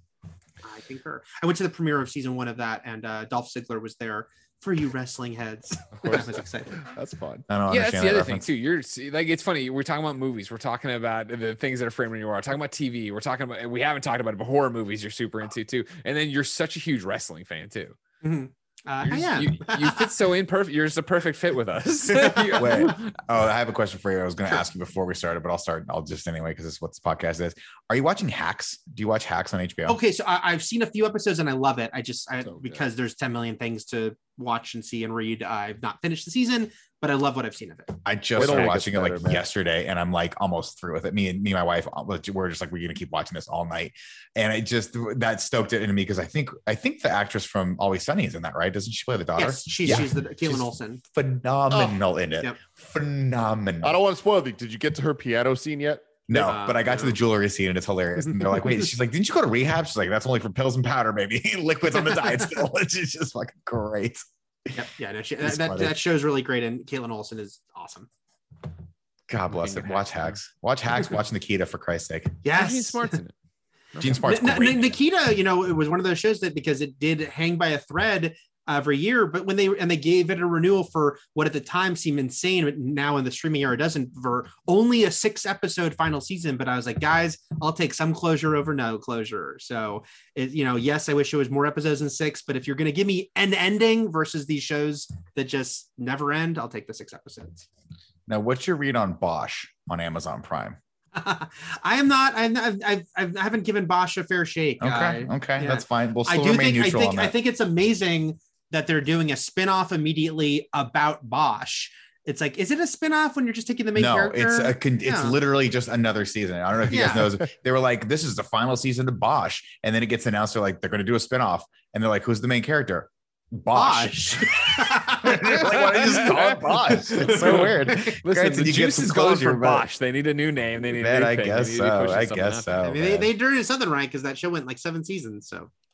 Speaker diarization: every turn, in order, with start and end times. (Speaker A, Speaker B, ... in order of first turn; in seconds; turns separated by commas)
Speaker A: 0.6-6.8, Speaker B: 6.0-7.5, Speaker C: 7.5-8.5, Speaker D: 7.7-18.0, Speaker A: 18.2-20.1, Speaker D: 19.1-23.1, Speaker A: 22.1-22.9, Speaker C: 22.6-30.0, Speaker A: 29.9-38.0, Speaker B: 32.5-32.8, Speaker C: 38.0-54.0, Speaker B: 38.4-39.4, Speaker A: 49.4-51.0, Speaker B: 53.8-56.2, Speaker C: 56.3-64.8, Speaker A: 56.3-57.2, Speaker A: 64.7-68.1, Speaker C: 65.4-66.0, Speaker C: 69.3-72.4, Speaker A: 72.4-73.2, Speaker D: 72.5-73.3, Speaker C: 74.0-74.9, Speaker A: 74.0-97.7, Speaker C: 98.3-100.8, Speaker A: 101.2-115.4, Speaker C: 104.8-107.3, Speaker C: 114.0-129.9, Speaker A: 116.9-117.3, Speaker A: 123.7-126.0, Speaker D: 125.5-132.8, Speaker A: 126.9-128.2, Speaker C: 130.9-133.3, Speaker A: 132.8-135.7